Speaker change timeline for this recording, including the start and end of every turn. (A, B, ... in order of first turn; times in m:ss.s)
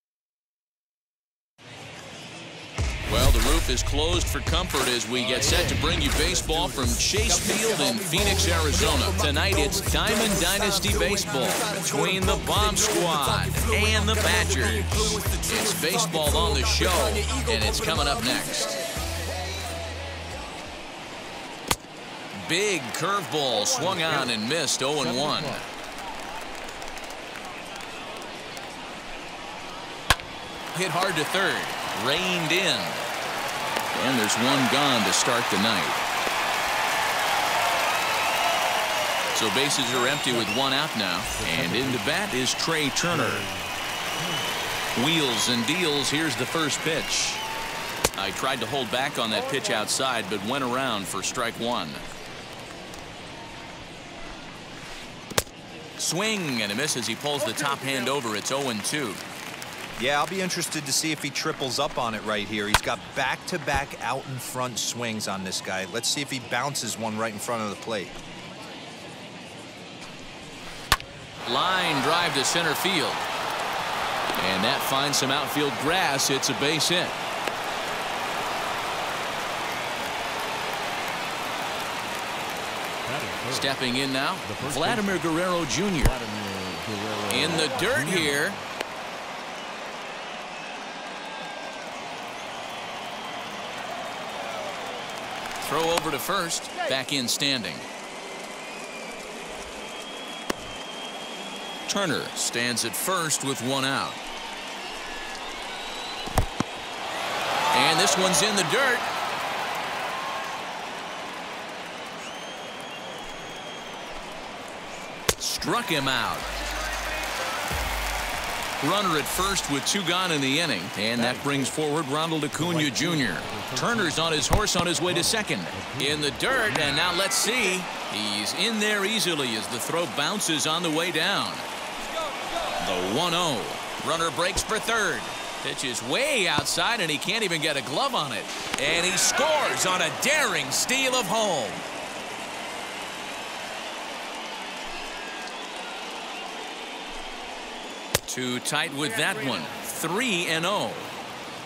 0:03.1-0:18.7 A
0:22.3-0:25.6 A
0:23.6-0:24.4 B
0:24.9-0:25.6 B
0:30.7-0:33.0 A
0:33.9-0:36.0 A
0:39.3-0:43.4 A
0:39.9-0:40.6 B
0:41.3-0:42.1 B
0:43.1-0:44.6 B
0:45.0-0:47.4 A
0:48.1-0:52.0 A
0:56.0-0:59.2 A
1:00.0-1:08.2 C
1:11.4-1:13.2 A
1:14.4-1:17.2 A
1:23.0-1:23.8 B
1:23.5-1:26.2 A
1:24.4-1:25.3 B
1:26.0-1:28.6 B
1:27.3-1:28.6 A
1:35.6-1:37.8 A
1:41.9-1:44.2 A
1:47.7-1:49.1 A
1:55.4-1:56.5 A
1:58.8-2:11.6 A
2:01.1-2:01.7 B
2:02.5-2:07.1 B
2:12.8-2:21.8 A
2:28.2-2:31.1 A